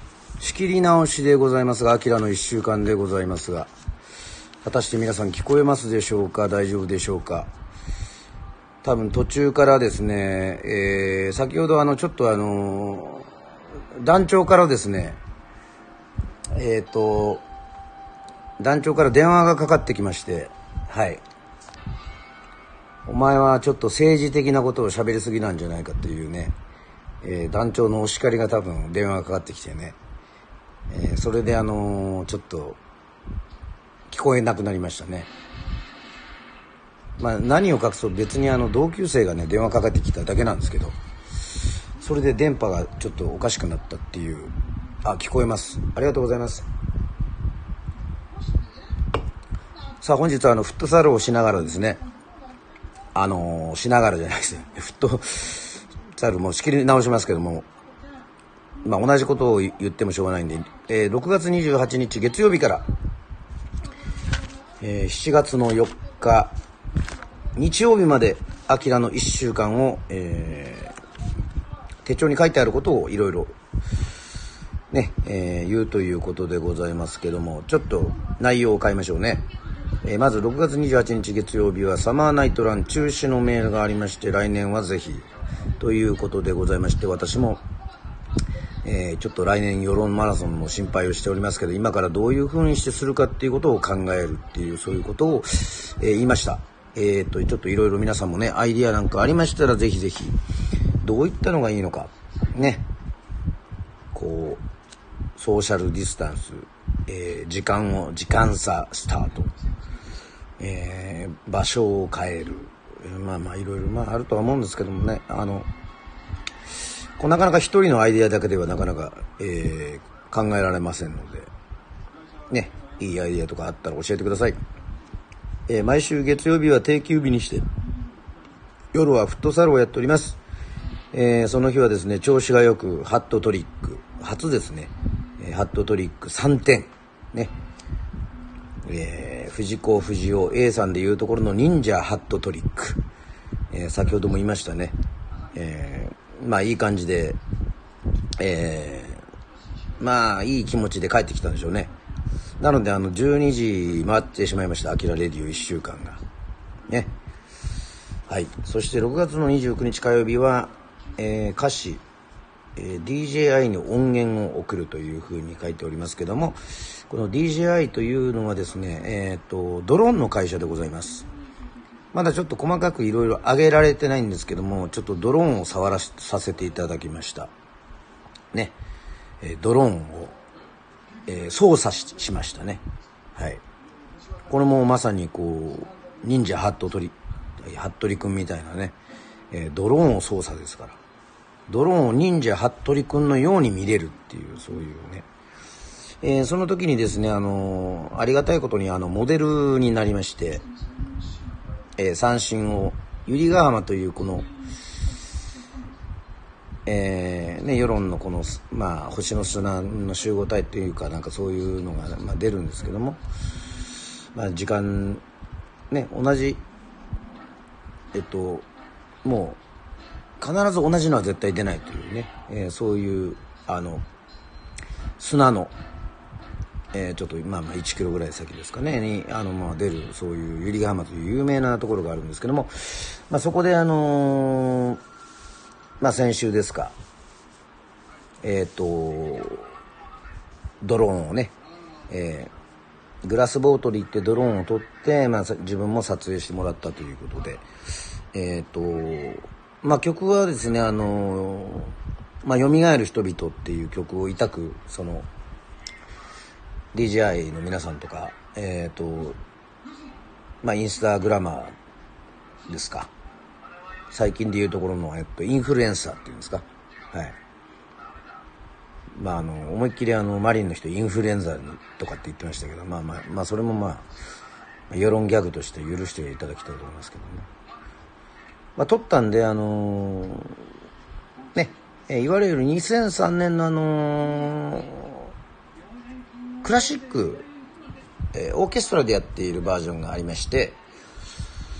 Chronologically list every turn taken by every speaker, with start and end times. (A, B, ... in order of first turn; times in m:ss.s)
0:00.4-0:03.7 A
0:04.6-0:07.5 A
0:08.8-0:13.3 A
0:13.9-0:15.2 A
0:16.5-0:17.4 A
0:18.6-0:21.2 A
0:23.0-0:26.6 A
0:27.2-0:30.0 A
0:30.9-0:32.8 A
0:34.1-0:35.3 A
0:37.2-0:41.0 A
0:42.0-0:46.7 A
0:50.0-0:52.0 A
0:53.1-0:57.7 A
0:58.8-1:02.8 A
1:04.8-1:06.5 A
1:07.5-1:11.0 A
1:12.0-1:13.5 A
1:14.9-1:19.4 A
1:20.0-1:25.2 A
1:25.8-1:27.6 A
1:28.8-1:40.4 A
1:41.0-1:42.9 A
1:44.1-1:44.6 A
1:45.4-1:49.5 A
1:50.6-1:55.7 A
1:57.2-2:01.5 A
2:02.5-2:04.6 A
2:05.7-2:07.7 A
2:08.9-2:10.4 A
2:11.1-2:17.5 A
2:18.8-2:23.0 A
2:23.7-2:25.0 A
2:25.5-2:27.4 A
2:28.4-2:29.2 A
2:30.0-2:31.9 A
2:32.6-2:36.2 A
2:36.9-2:37.1 A
2:38.3-2:42.0 A
2:42.8-2:51.3 A
2:52.1-2:57.5 A
2:59.4-3:00.4 A
3:01.3-3:02.8 A
3:03.3-3:03.6 A
3:04.5-3:09.0 A
3:09.5-3:11.0 A
3:11.7-3:15.2 A
3:16.2-3:20.6 A
3:22.0-3:24.5 A
3:26.8-3:33.2 A
3:34.3-3:35.2 A
3:35.9-3:36.6 A
3:38.1-3:38.7 A
3:39.2-3:39.6 A
3:40.4-3:44.0 A
3:45.2-3:45.7 A
3:46.9-3:55.0 A
3:56.0-3:56.9 A
3:58.4-3:59.7 A
4:00.8-4:01.6 A
4:02.1-4:02.5 A
4:03.2-4:07.7 A
4:08.3-4:15.3 A
4:16.9-4:19.4 A
4:20.6-4:21.7 A
4:22.7-4:23.1 A
4:24.1-4:27.4 A
4:29.1-4:34.0 A
4:34.9-4:37.5 A
4:38.8-4:40.6 A
4:41.5-4:45.3 A
4:46.6-4:47.5 A
4:48.3-4:50.8 A